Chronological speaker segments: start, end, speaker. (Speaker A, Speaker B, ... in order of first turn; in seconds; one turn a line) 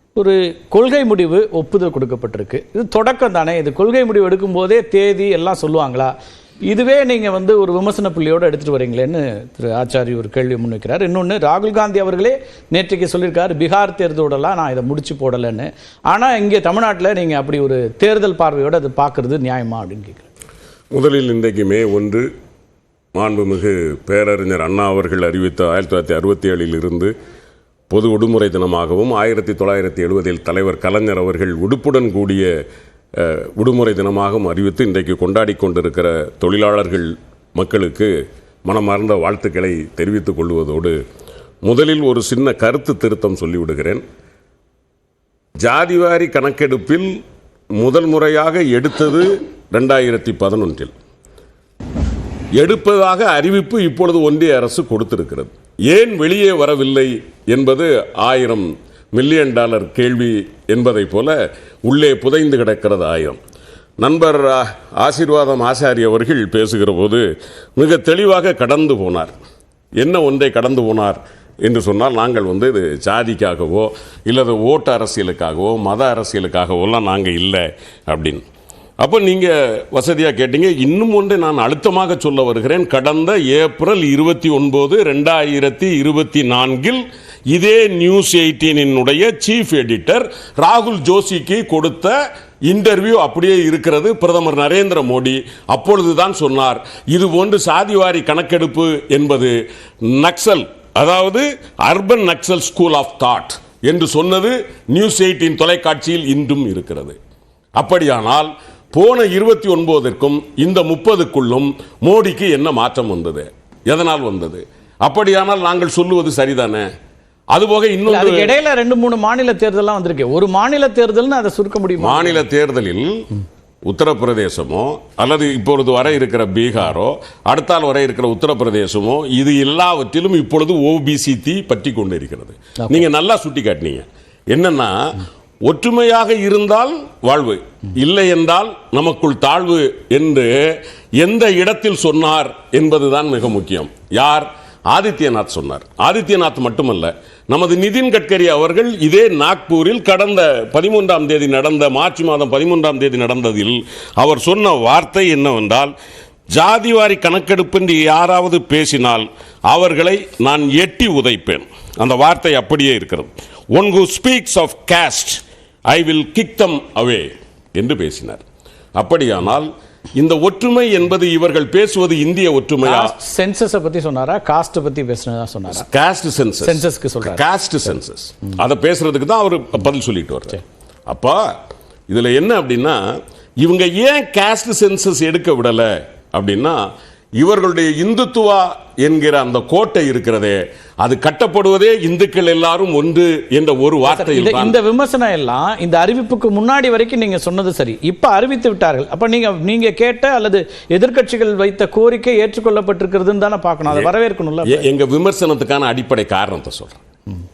Speaker A: 0.1-6.1
Speaker A: 6.7-20.3
Speaker B: 20.9-22.3
Speaker B: 23.1-27.1
Speaker B: 27.9-32.5
Speaker B: 33.2-38.1
Speaker B: 38.6-41.0
Speaker B: 41.6-44.0
Speaker B: 45.6-47.1
Speaker B: 47.8-50.9
Speaker B: 52.5-63.4
Speaker B: 64.0-67.2
Speaker B: 67.8-69.3
Speaker B: 70.0-78.4
Speaker B: 79.0-99.5
Speaker B: 100.1-107.2
Speaker B: 107.8-116.9
Speaker B: 117.5-118.5
Speaker A: 118.1-122.4
Speaker B: 122.0-123.1
Speaker B: 123.8-155.9
Speaker B: 156.5-168.4
Speaker B: 169.0-173.1
Speaker A: 172.8-175.8
Speaker B: 175.7-181.5
Speaker A: 176.6-177.4
Speaker B: 182.1-183.0
Speaker B: 183.6-186.8
Speaker B: 187.4-194.8
Speaker A: 194.1-204.8
Speaker B: 204.7-207.0